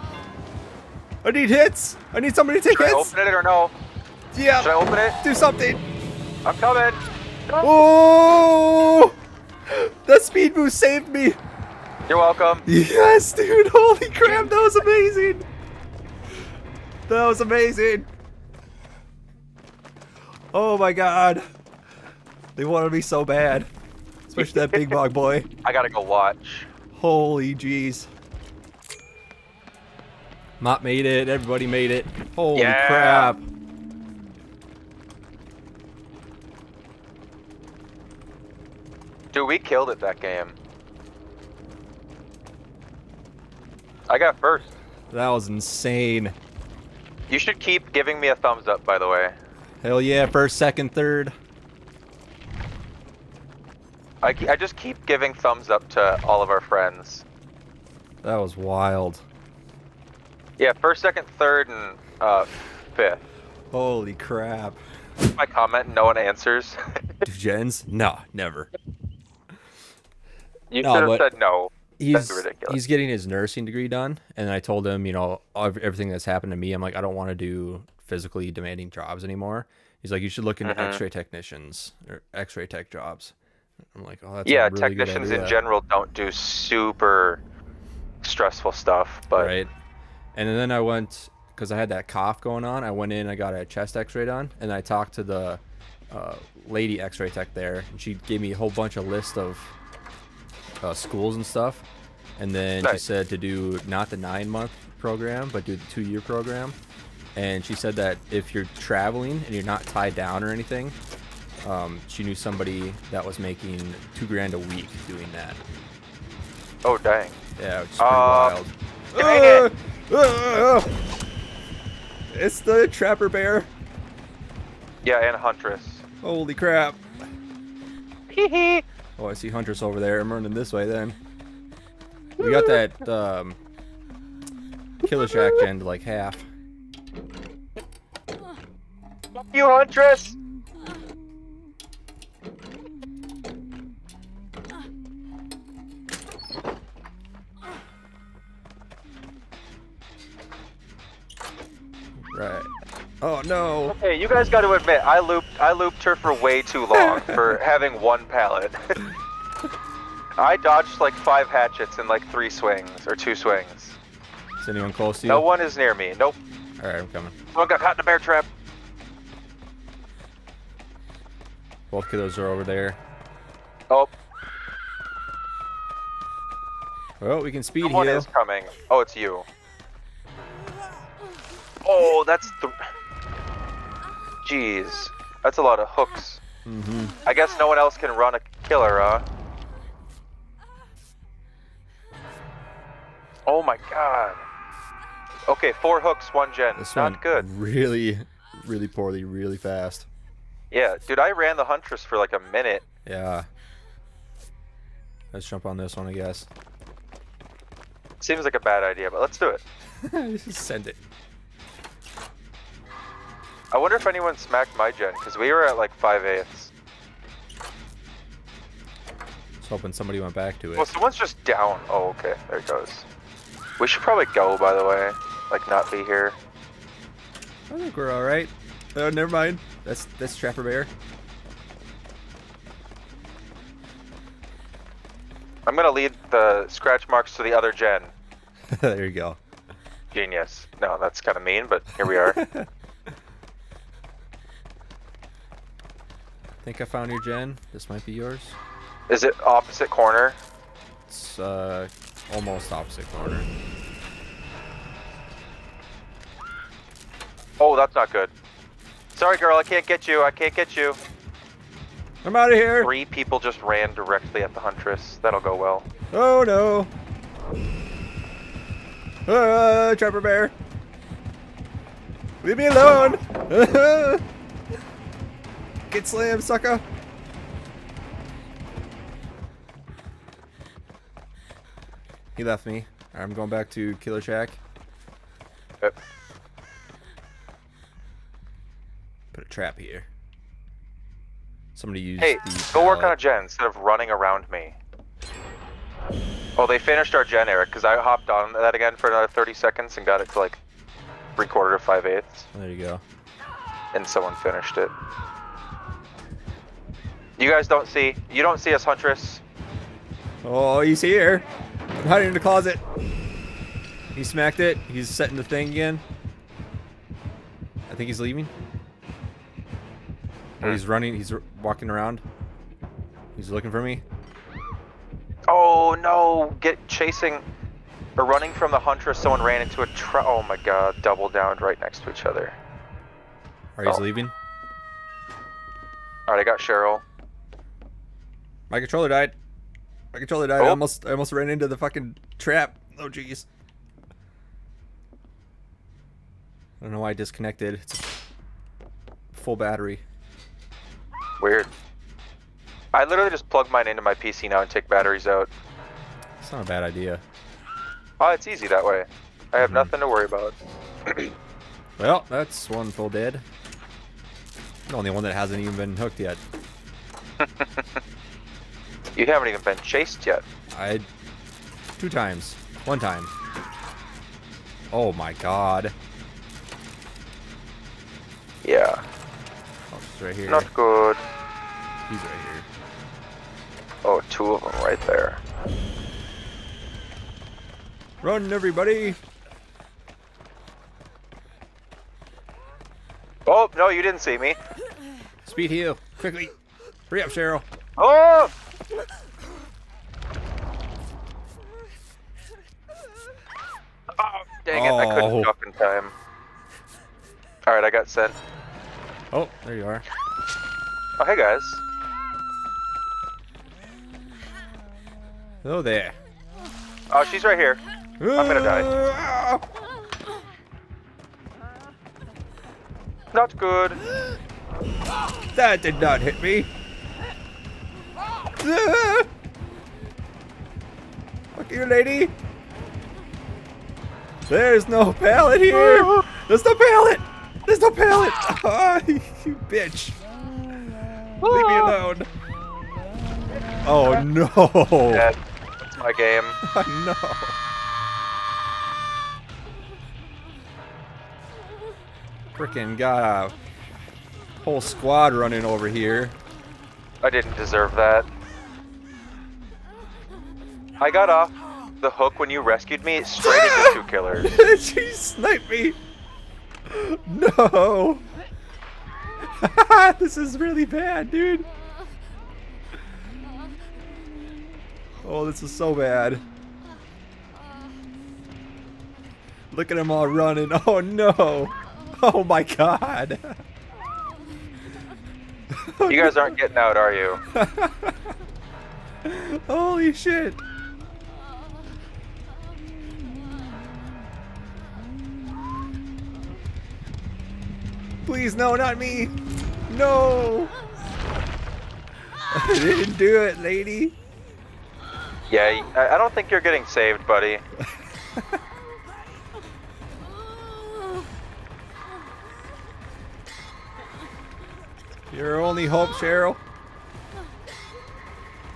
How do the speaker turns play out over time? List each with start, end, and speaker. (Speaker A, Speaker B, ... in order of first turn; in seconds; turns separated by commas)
Speaker A: 1.2-3.1, Speaker B: 2.7-3.7, Speaker A: 4.3-5.8, Speaker B: 4.6-5.2, Speaker B: 6.4-7.7, Speaker A: 7.6-9.1, Speaker A: 9.7-11.4, Speaker B: 12.1-12.6, Speaker A: 12.7-15.4, Speaker A: 17.1-18.1, Speaker A: 20.5-21.4, Speaker A: 22.6-23.7, Speaker A: 24.3-25.5, Speaker B: 24.4-25.0, Speaker B: 25.6-26.7, Speaker A: 26.9-28.1, Speaker A: 30.6-33.4, Speaker B: 32.5-33.3, Speaker B: 39.3-40.5, Speaker B: 44.1-44.7, Speaker A: 45.1-46.3, Speaker B: 47.3-49.3, Speaker A: 49.8-51.3, Speaker B: 54.2-57.2, Speaker A: 58.2-59.2, Speaker B: 60.6-63.2, Speaker A: 63.7-64.8, Speaker B: 65.2-67.2, Speaker A: 67.2-68.7, Speaker B: 70.7-72.8, Speaker A: 70.8-71.2, Speaker A: 72.0-83.3, Speaker B: 80.6-81.0, Speaker A: 83.9-85.6, Speaker B: 84.5-87.4, Speaker B: 88.2-89.5, Speaker A: 89.3-89.7, Speaker A: 90.3-99.7, Speaker A: 100.8-101.8, Speaker A: 102.4-106.8, Speaker A: 107.3-111.0, Speaker A: 111.6-115.6, Speaker B: 116.8-117.3, Speaker A: 117.6-120.9, Speaker B: 118.0-118.6, Speaker B: 119.1-119.7, Speaker A: 122.3-123.7, Speaker B: 125.0-126.0, Speaker A: 126.2-127.0, Speaker B: 128.3-128.8, Speaker A: 129.2-131.2, Speaker B: 132.4-132.8, Speaker A: 132.4-133.6, Speaker A: 135.0-136.5, Speaker B: 135.4-135.6, Speaker B: 139.3-140.3, Speaker A: 152.2-152.7, Speaker A: 153.2-153.9, Speaker B: 153.9-159.0, Speaker A: 156.9-157.6, Speaker B: 160.4-164.0, Speaker A: 164.6-165.4, Speaker B: 165.2-166.4, Speaker A: 166.8-167.3, Speaker B: 167.5-168.5, Speaker A: 171.9-173.0, Speaker A: 177.2-178.3, Speaker B: 177.8-179.5, Speaker B: 181.8-182.8, Speaker B: 184.4-186.4, Speaker A: 186.6-187.2, Speaker B: 187.2-189.2, Speaker B: 193.4-194.4, Speaker B: 195.5-197.4, Speaker A: 196.8-200.1, Speaker B: 200.7-202.8, Speaker A: 203.1-203.5, Speaker A: 205.3-206.5, Speaker B: 208.2-209.6, Speaker A: 210.0-211.0, Speaker B: 213.7-216.7, Speaker A: 219.6-220.9, Speaker B: 220.8-223.1, Speaker B: 223.8-226.4, Speaker A: 227.7-230.9, Speaker B: 235.7-238.1, Speaker A: 238.7-239.4, Speaker B: 240.1-242.4, Speaker A: 242.1-242.7, Speaker A: 246.6-248.6, Speaker B: 249.1-250.4, Speaker A: 251.1-253.5, Speaker B: 257.6-258.3, Speaker B: 259.1-261.0, Speaker A: 262.2-262.9, Speaker B: 262.8-265.9, Speaker A: 266.1-266.9, Speaker A: 269.2-270.5, Speaker A: 272.4-274.2, Speaker A: 275.9-276.8, Speaker A: 282.3-284.6, Speaker A: 289.3-290.1, Speaker A: 291.7-293.2, Speaker B: 292.2-294.8, Speaker B: 296.6-300.6, Speaker B: 301.4-302.5, Speaker A: 302.5-303.0, Speaker B: 303.9-304.9, Speaker B: 307.4-309.4, Speaker A: 310.4-311.4, Speaker A: 312.0-312.8, Speaker A: 314.1-316.0, Speaker A: 317.9-318.5, Speaker A: 320.6-322.2, Speaker A: 323.4-324.0, Speaker B: 325.5-327.4, Speaker B: 328.2-332.5, Speaker A: 333.8-334.3, Speaker B: 336.3-337.0, Speaker A: 338.7-339.3, Speaker A: 340.1-343.4, Speaker A: 346.8-348.1, Speaker A: 349.3-350.0, Speaker B: 351.4-351.7, Speaker B: 352.9-355.5, Speaker A: 356.4-357.2, Speaker B: 358.2-360.5, Speaker A: 359.6-359.9, Speaker B: 361.1-361.3, Speaker A: 362.0-363.4, Speaker A: 364.9-366.4, Speaker B: 367.4-368.0, Speaker B: 369.1-370.4, Speaker A: 370.7-371.1, Speaker A: 372.0-373.3, Speaker A: 374.9-375.9, Speaker B: 378.6-379.0, Speaker A: 379.9-380.7, Speaker B: 380.5-381.2, Speaker A: 382.1-382.7, Speaker B: 384.0-385.4, Speaker A: 388.2-389.2, Speaker B: 393.4-394.6, Speaker A: 395.4-396.5, Speaker A: 397.1-397.6, Speaker B: 398.0-398.5, Speaker B: 404.2-406.1, Speaker A: 404.7-405.5, Speaker B: 407.7-408.4, Speaker A: 409.3-410.1, Speaker B: 411.2-411.8, Speaker A: 415.6-416.2, Speaker B: 417.1-417.8, Speaker A: 418.2-419.6, Speaker B: 418.3-418.9, Speaker B: 423.3-424.0, Speaker A: 425.5-426.7, Speaker A: 428.6-429.3, Speaker A: 431.5-432.3, Speaker A: 434.5-440.2, Speaker B: 435.7-436.2, Speaker B: 441.4-441.9, Speaker A: 441.4-442.3, Speaker A: 443.8-445.3, Speaker B: 445.1-446.6, Speaker A: 446.6-447.6, Speaker A: 452.6-453.6, Speaker A: 454.6-456.3, Speaker B: 457.2-458.3, Speaker B: 461.0-464.5, Speaker A: 463.4-466.0, Speaker A: 466.9-468.2, Speaker A: 469.6-471.7, Speaker A: 475.2-476.4, Speaker A: 479.7-483.6, Speaker A: 485.9-486.5, Speaker B: 486.1-487.4, Speaker A: 487.5-488.1, Speaker A: 489.2-490.6, Speaker A: 498.2-499.3, Speaker A: 499.9-500.7, Speaker A: 502.5-504.1, Speaker B: 505.5-507.6, Speaker A: 515.3-516.6